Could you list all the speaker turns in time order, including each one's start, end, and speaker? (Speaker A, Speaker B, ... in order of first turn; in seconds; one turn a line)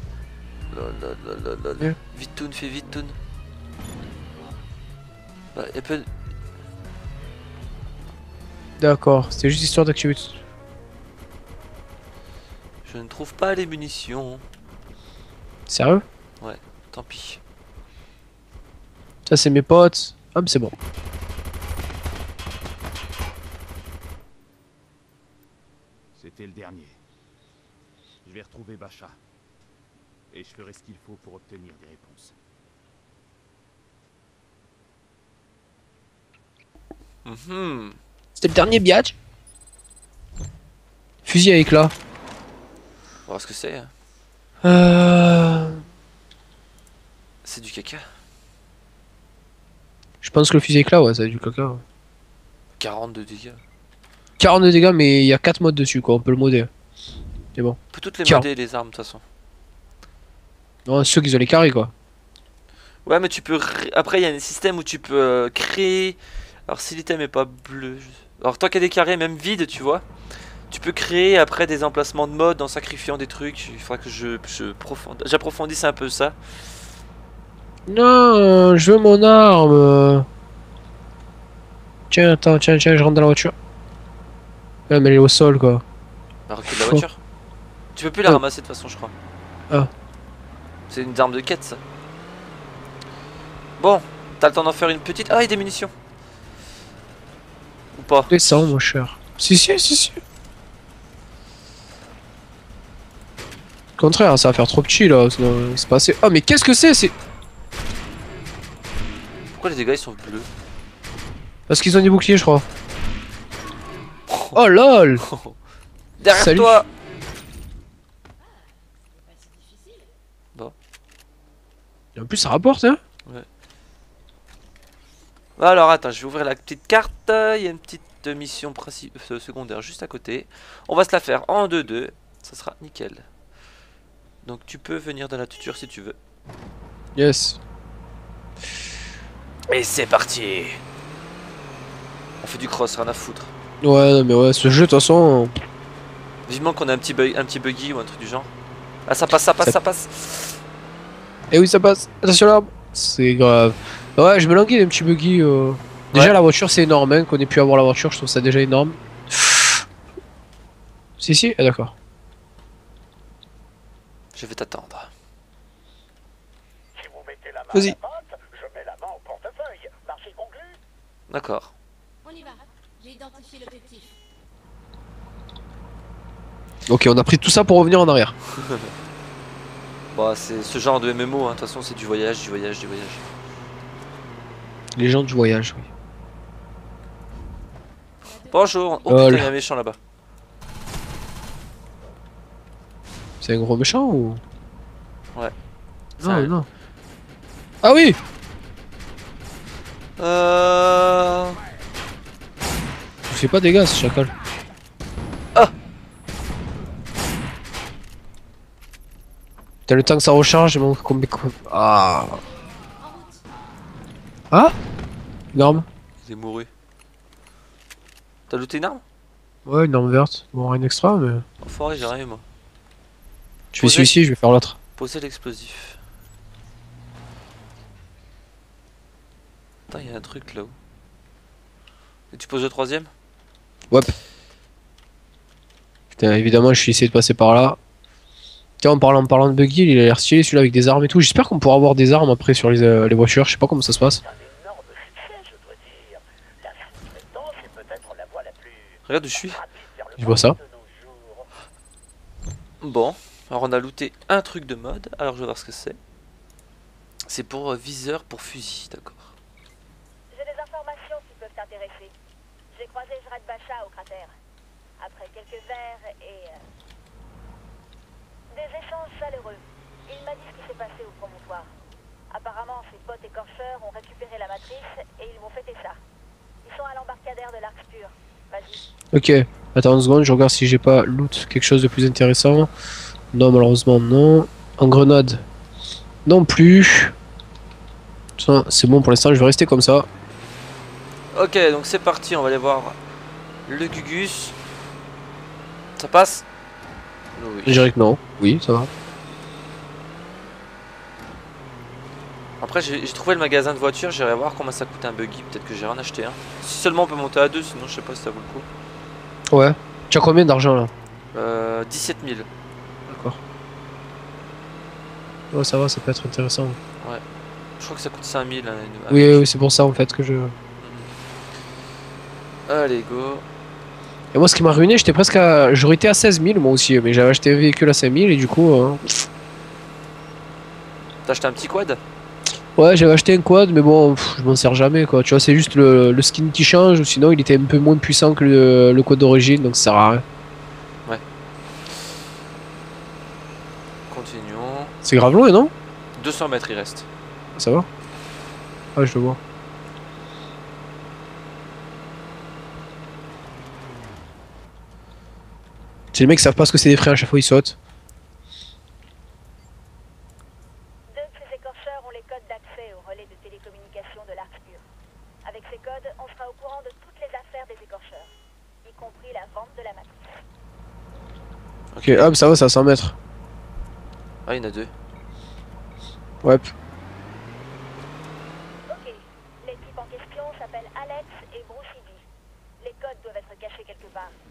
Speaker A: 0.7-3.1
Speaker A: 5.5-6.0
Speaker B: 8.8-10.4
Speaker A: 12.8-14.4
Speaker B: 15.7-16.0
Speaker A: 16.4-17.4
Speaker B: 19.2-20.7
Speaker C: 26.1-27.0
Speaker C: 28.2-29.2
Speaker C: 30.3-32.4
Speaker A: 37.2-38.0
Speaker B: 38.4-39.1
Speaker B: 41.2-41.9
Speaker A: 43.3-43.9
Speaker B: 44.6-45.8
Speaker A: 47.4-48.0
Speaker B: 50.2-51.8
Speaker A: 52.8-53.6
Speaker B: 54.4-56.7
Speaker B: 57.5-58.5
Speaker A: 57.9-59.2
Speaker B: 60.9-61.9
Speaker A: 63.0-70.0
Speaker A: 70.7-76.4
Speaker B: 77.9-80.3
Speaker B: 82.1-83.5
Speaker B: 84.9-85.8
Speaker A: 86.5-87.2
Speaker B: 86.7-87.0
Speaker A: 87.9-89.1
Speaker A: 90.9-91.8
Speaker A: 93.8-95.9
Speaker A: 97.9-98.3
Speaker B: 98.3-100.2
Speaker B: 104.0-107.1
Speaker A: 109.5-110.5
Speaker B: 111.7-112.6
Speaker A: 114.3-114.6
Speaker B: 114.5-115.2
Speaker A: 115.2-115.6
Speaker A: 116.2-116.9
Speaker B: 116.3-116.8
Speaker D: 118.4-120.1
Speaker B: 122.2-123.0
Speaker A: 125.6-133.3
Speaker A: 134.4-136.2
Speaker B: 137.2-137.6
Speaker A: 139.7-140.8
Speaker A: 142.4-143.5
Speaker B: 143.8-145.5
Speaker A: 146.4-148.5
Speaker A: 149.1-150.6
Speaker B: 151.5-159.7
Speaker B: 161.2-161.9
Speaker A: 164.3-165.1
Speaker E: 166.9-170.8
Speaker A: 171.3-171.7
Speaker D: 172.2-174.2
Speaker B: 176.9-178.3
Speaker A: 178.6-178.9
Speaker A: 180.1-183.2
Speaker B: 184.9-185.9
Speaker D: 188.2-189.3
Speaker A: 188.5-190.0
Speaker B: 189.1-189.5
Speaker B: 193.4-194.4
Speaker A: 196.2-196.5
Speaker B: 196.2-196.7
Speaker B: 197.8-198.2
Speaker A: 200.2-201.6
Speaker B: 203.3-204.3
Speaker B: 209.9-212.4
Speaker D: 213.0-213.4
Speaker B: 214.5-214.8
Speaker B: 215.5-215.8
Speaker A: 216.2-216.7
Speaker A: 218.5-219.0
Speaker B: 219.7-221.4
Speaker A: 221.6-222.4
Speaker B: 223.7-224.8
Speaker A: 223.8-224.1
Speaker A: 225.0-226.0
Speaker A: 229.9-230.7
Speaker A: 232.3-233.1
Speaker B: 236.1-237.8
Speaker B: 238.8-244.2
Speaker E: 244.2-251.5
Speaker A: 249.1-249.6
Speaker B: 250.2-250.6
Speaker A: 252.8-256.0
Speaker A: 257.3-259.3
Speaker F: 260.3-262.1
Speaker F: 262.7-264.3
Speaker F: 265.0-266.6
Speaker F: 268.5-271.7
Speaker F: 272.3-276.0
Speaker F: 276.6-278.8
Speaker B: 279.1-282.7
Speaker B: 283.3-285.4
Speaker B: 286.2-287.1
Speaker B: 288.4-290.1
Speaker A: 291.3-292.9
Speaker A: 293.7-294.6
Speaker A: 296.0-296.4
Speaker A: 297.4-297.8
Speaker B: 297.6-298.9
Speaker A: 302.6-308.7
Speaker B: 309.5-310.9
Speaker A: 311.3-312.5
Speaker B: 313.1-313.4
Speaker B: 315.5-316.8
Speaker A: 317.8-319.5
Speaker B: 319.1-320.5
Speaker A: 320.8-321.1
Speaker A: 322.7-323.4
Speaker B: 324.3-329.0
Speaker A: 331.2-332.0
Speaker B: 332.8-340.2
Speaker A: 344.1-344.9
Speaker B: 345.0-345.7
Speaker A: 346.1-347.1
Speaker B: 347.6-347.9
Speaker B: 348.9-349.4
Speaker B: 356.1-357.8
Speaker F: 361.1-364.8
Speaker F: 365.4-368.3
Speaker F: 368.8-370.4
Speaker A: 371.9-372.3
Speaker B: 372.0-373.1
Speaker A: 374.4-374.9
Speaker B: 376.4-376.7
Speaker F: 378.9-382.2
Speaker F: 382.8-384.3